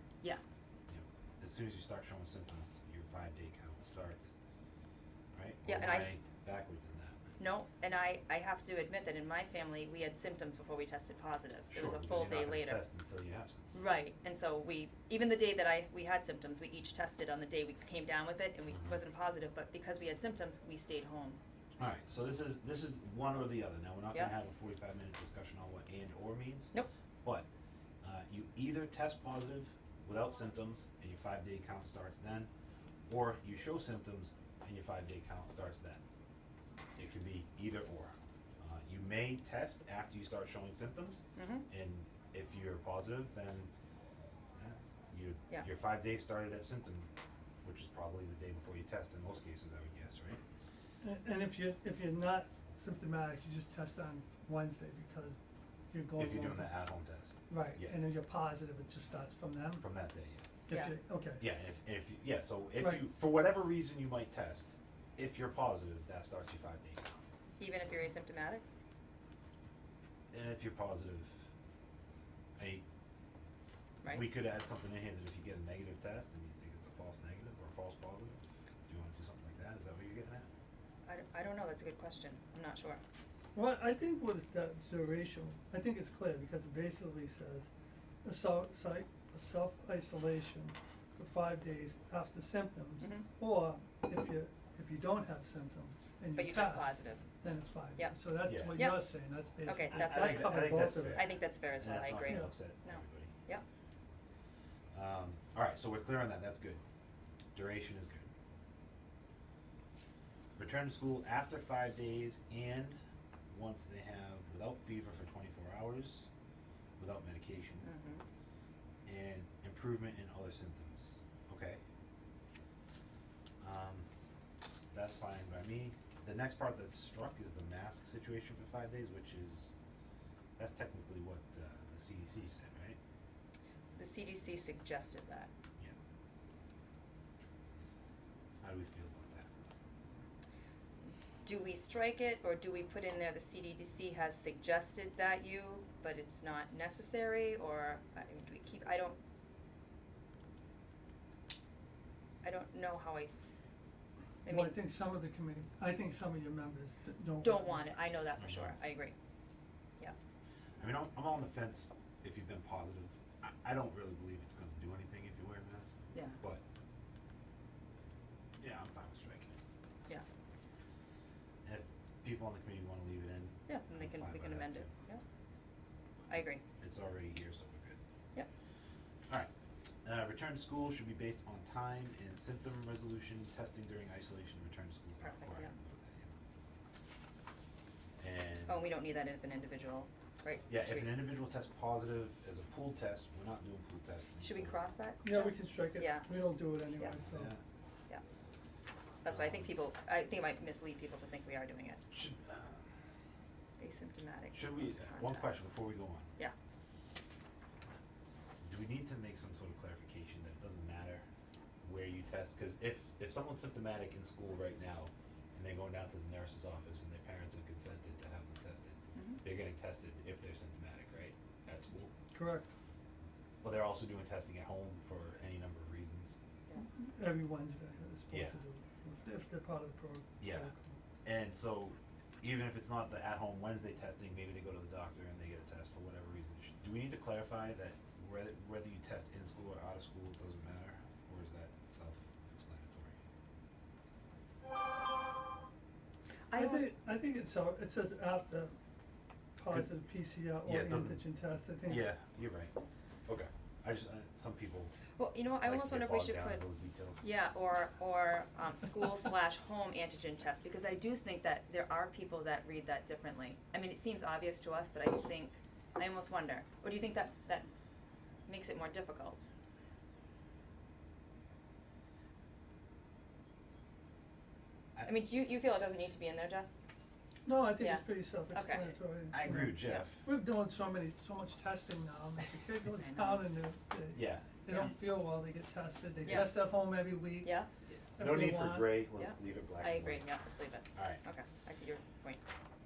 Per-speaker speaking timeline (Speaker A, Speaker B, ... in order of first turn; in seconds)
Speaker A: 0.9-4.3, 5.3-7.2, 11.7-13.8, 18.7-19.0, 21.8-26.7, 28.0-32.5, 33.1-36.0, 37.0-43.7, 44.5-47.1, 47.6-50.4, 56.2-58.0, 59.8-60.5, 61.4-67.1, 70.3-71.4, 72.6-72.8, 74.1-80.5, 98.5-98.8, 99.9-103.3, 104.9-106.8, 107.5-108.3, 110.6-113.0, 113.5-116.3, 117.0-117.9, 119.1-121.8, 123.6-124.1, 124.9-129.7, 130.6-133.0, 138.6-139.5, 158.4-158.8, 160.8-166.6, 168.6-169.6, 171.7-174.9, 176.8-178.0, 180.1-186.3, 188.2-188.9, 190.7-194.8, 197.0-197.6, 199.3-199.7, 202.1-202.9, 204.5-206.3, 208.6-211.2, 211.8-222.1, 223.6-226.4, 228.3-228.6, 230.4-230.7, 231.2-243.2, 250.6-251.2, 251.8-252.7, 253.2-254.9, 255.6-257.3, 279.3-280.2, 284.1-284.4, 288.2-290.3, 290.9-291.2
Speaker B: 5.7-6.2, 7.4-12.8, 13.7-21.4, 41.3-41.6, 60.7-61.0, 67.6-68.6, 81.0-83.0, 93.0-93.3, 96.3-97.2, 98.7-103.6, 117.8-118.2, 133.9-135.5, 141.4-149.2, 152.4-153.3, 154.4-154.8, 157.4-159.2, 166.1-166.4, 173.7-175.2, 176.3-176.6, 185.2-185.7, 188.7-191.2, 194.4-196.3, 199.2-202.0, 203.8-205.6, 219.1-219.4, 246.5-246.9, 255.2-256.7, 257.2-267.7, 268.5-269.4, 275.0-276.7, 277.8-278.9, 283.0-283.5, 284.7-285.0, 286.2-286.6, 287.4-287.7, 289.2-292.4
Speaker C: 51.0-55.4, 55.9-56.8, 57.5-59.8, 60.7-61.4, 62.8-63.1, 83.5-87.7, 88.2-101.2, 102.3-102.5, 154.5-158.0, 195.2-197.5, 222.3-222.7, 226.8-231.0, 246.5-248.8, 249.6-252.1, 277.4-287.6, 288.2-289.0